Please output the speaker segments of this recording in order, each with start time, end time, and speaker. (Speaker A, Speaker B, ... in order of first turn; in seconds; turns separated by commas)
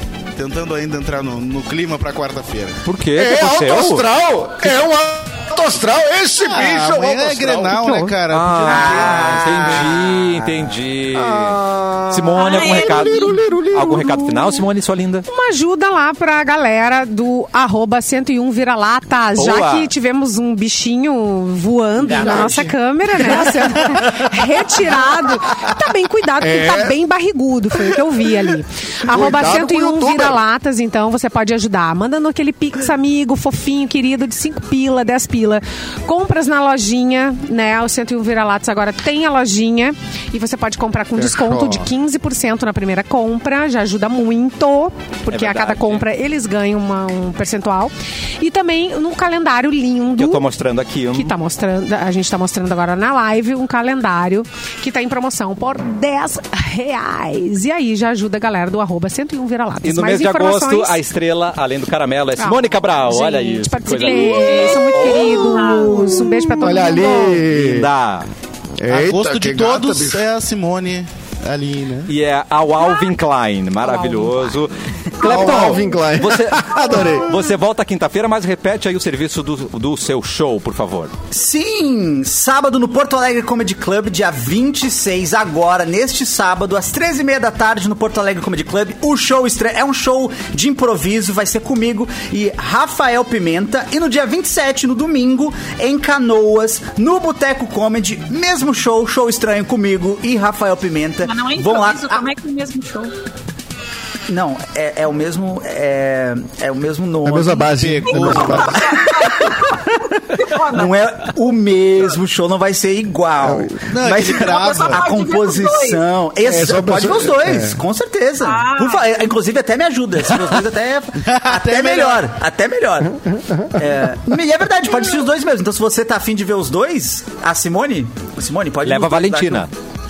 Speaker A: 0.4-2.8, Speaker B: 2.9-4.1, Speaker C: 3.1-8.0, Speaker A: 6.4-10.0, Speaker D: 7.8-8.1, Speaker B: 8.3-11.6, Speaker E: 8.7-10.8, Speaker C: 11.1-14.5, Speaker B: 12.1-15.2, Speaker F: 12.4-13.4, Speaker D: 15.3-50.4, Speaker B: 19.4-19.9, Speaker E: 22.0-22.8, Speaker E: 23.3-24.3, Speaker C: 26.4-26.9, Speaker C: 29.1-30.4, Speaker C: 41.2-41.9, Speaker B: 45.3-46.1, Speaker B: 50.2-51.3, Speaker D: 51.1-61.0, Speaker B: 59.8-65.6, Speaker D: 62.4-67.5, Speaker F: 63.9-66.0, Speaker C: 65.6-67.9, Speaker B: 67.4-68.3, Speaker C: 68.8-70.2, Speaker A: 68.9-72.1, Speaker B: 72.1-81.1, Speaker D: 73.8-74.6, Speaker E: 75.2-75.8, Speaker C: 75.2-77.4, Speaker F: 75.3-75.8, Speaker E: 81.3-102.2, Speaker F: 101.2-103.1, Speaker E: 104.3-109.5, Speaker C: 107.2-108.8, Speaker A: 107.7-108.8, Speaker F: 108.1-111.3, Speaker E: 110.7-123.1, Speaker C: 113.4-113.8, Speaker A: 113.9-115.0, Speaker F: 114.2-116.0, Speaker C: 116.4-117.8, Speaker F: 118.4-119.2, Speaker A: 121.2-122.2, Speaker C: 123.3-123.8, Speaker E: 123.8-129.7, Speaker B: 128.8-129.7